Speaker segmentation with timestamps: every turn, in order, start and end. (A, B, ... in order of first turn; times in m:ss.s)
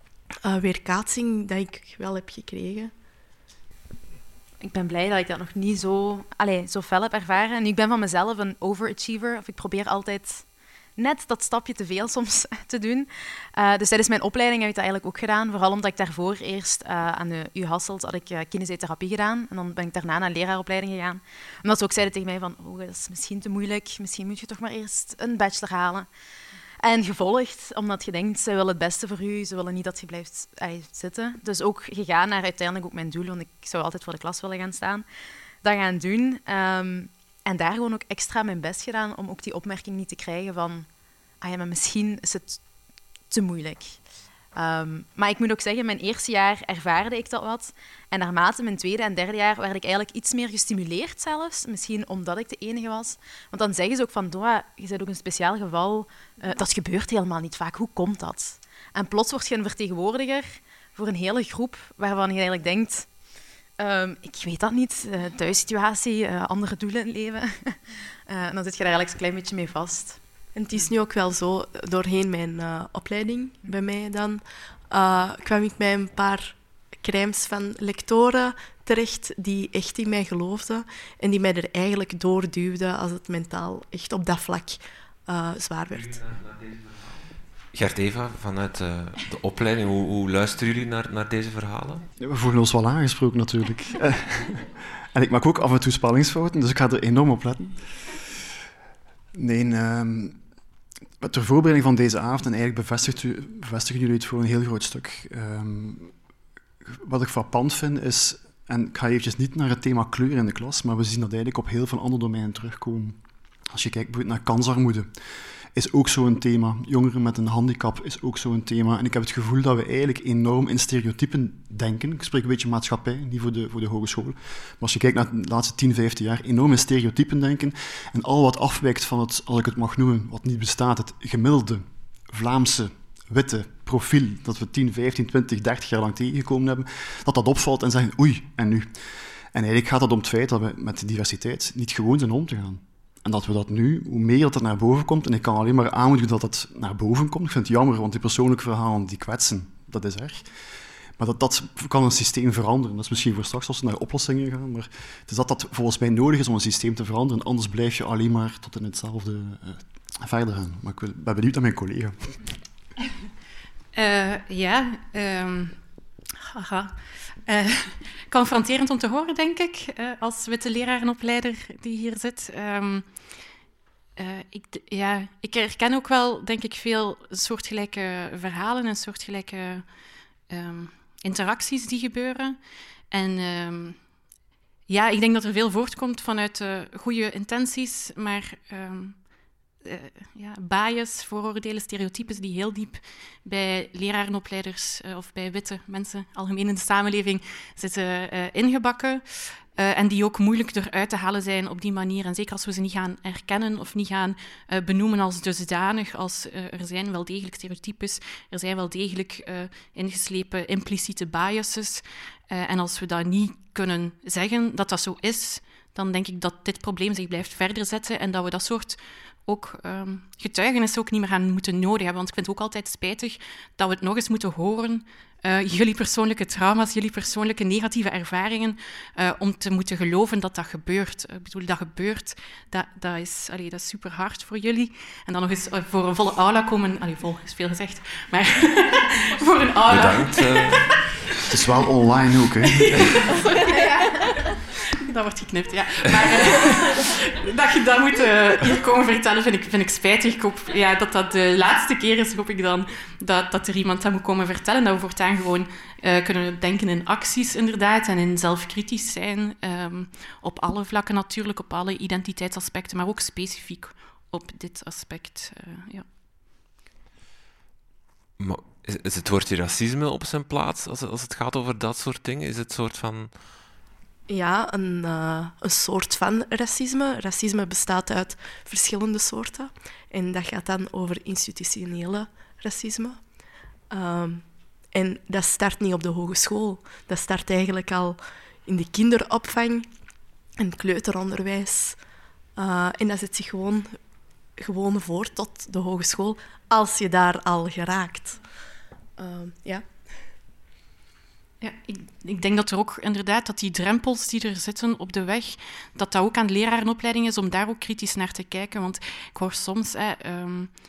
0:00.4-0:02.9 A
0:04.6-0:10.4 B
0:11.0-0:26.1 B
0:26.8-0:35.0 B
0:35.6-0:40.9 B
0:41.4-0:42.6 B
0:43.3-0:44.0 B
0:44.5-1:03.1 B
1:03.8-1:10.2 B
1:10.5-1:26.2 A
1:26.2-1:27.0 C
1:27.7-1:32.0 C
1:32.2-1:37.8 D
1:39.3-1:40.4 D
1:41.2-1:46.1 D
1:46.8-1:53.2 D
1:53.7-1:55.1 D
1:55.7-2:18.9 D
2:19.5-2:30.5 D
2:31.2-2:42.5 D
2:43.9-2:45.8 E
2:46.4-2:53.4 E
2:54.2-2:59.9 E
3:00.5-3:04.0 E
3:04.9-3:09.3 E
3:09.8-4:01.3 E
3:59.9-4:00.8 C
4:01.5-4:02.9 D
4:02.8-4:04.3 E
4:04.9-4:26.0 E
4:28.4-4:33.3 C
4:34.3-4:43.2 A
4:43.9-4:49.8 A
4:50.6-4:52.0 A
4:52.6-4:53.9 A
4:54.6-4:58.4 A
4:59.2-4:59.8 A
5:01.6-5:10.7 E